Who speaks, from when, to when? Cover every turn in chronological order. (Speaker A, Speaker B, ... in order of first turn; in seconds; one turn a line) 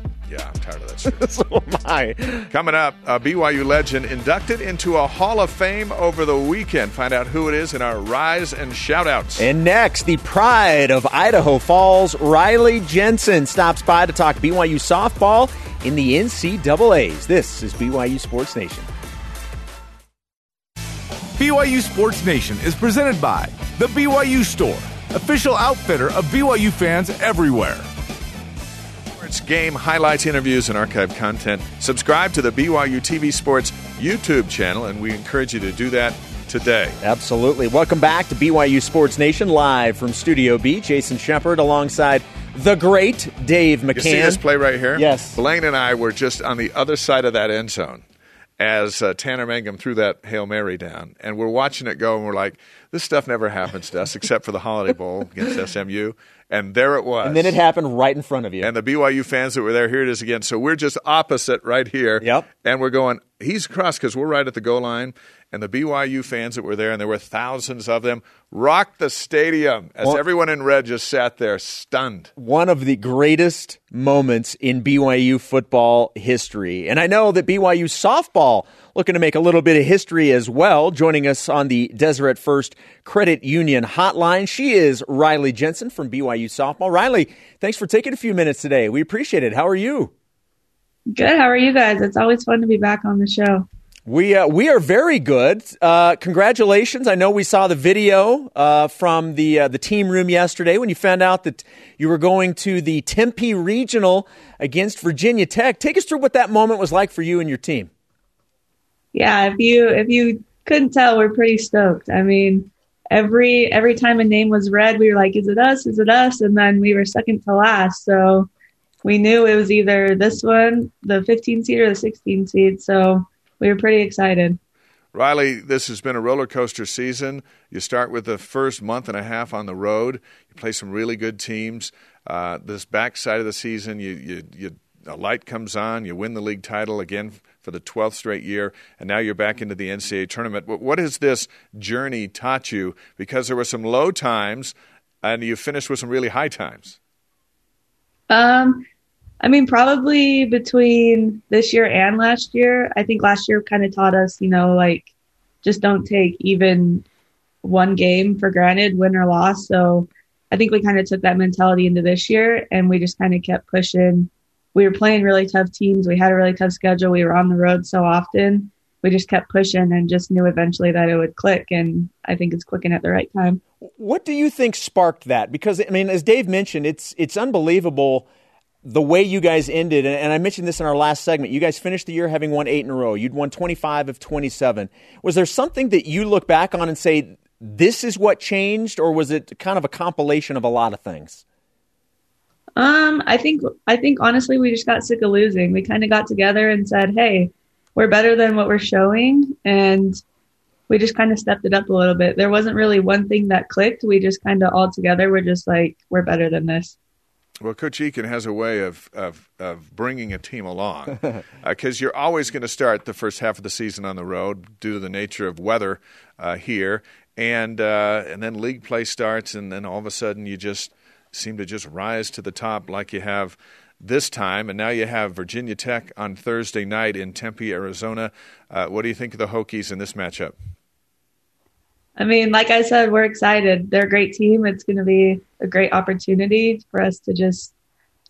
Speaker A: 0.3-1.2
Speaker B: 1.1-2.5
Speaker A: 2.5-9.4
Speaker B: 9.4-18.9
Speaker C: 21.4-27.8
Speaker A: 29.2-37.0
Speaker B: 37.0-44.4
Speaker A: 43.9-48.0
Speaker B: 44.9-45.4
Speaker A: 48.6-57.6
Speaker B: 57.2-58.7
Speaker A: 58.6-72.3
Speaker B: 72.3-90.1
Speaker D: 91.1-93.7
Speaker B: 94.1-107.9
Speaker D: 109.1-118.5
Speaker D: 119.0-124.6
Speaker A: 125.1-147.0
Speaker D: 148.3-148.8
Speaker D: 149.4-155.1
Speaker D: 155.6-157.0
Speaker D: 157.6-173.6
Speaker B: 173.8-178.2
Speaker B: 178.8-191.4
Speaker D: 192.8-200.2
Speaker D: 200.9-206.9
Speaker A: 207.6-230.5
Speaker D: 232.2-237.7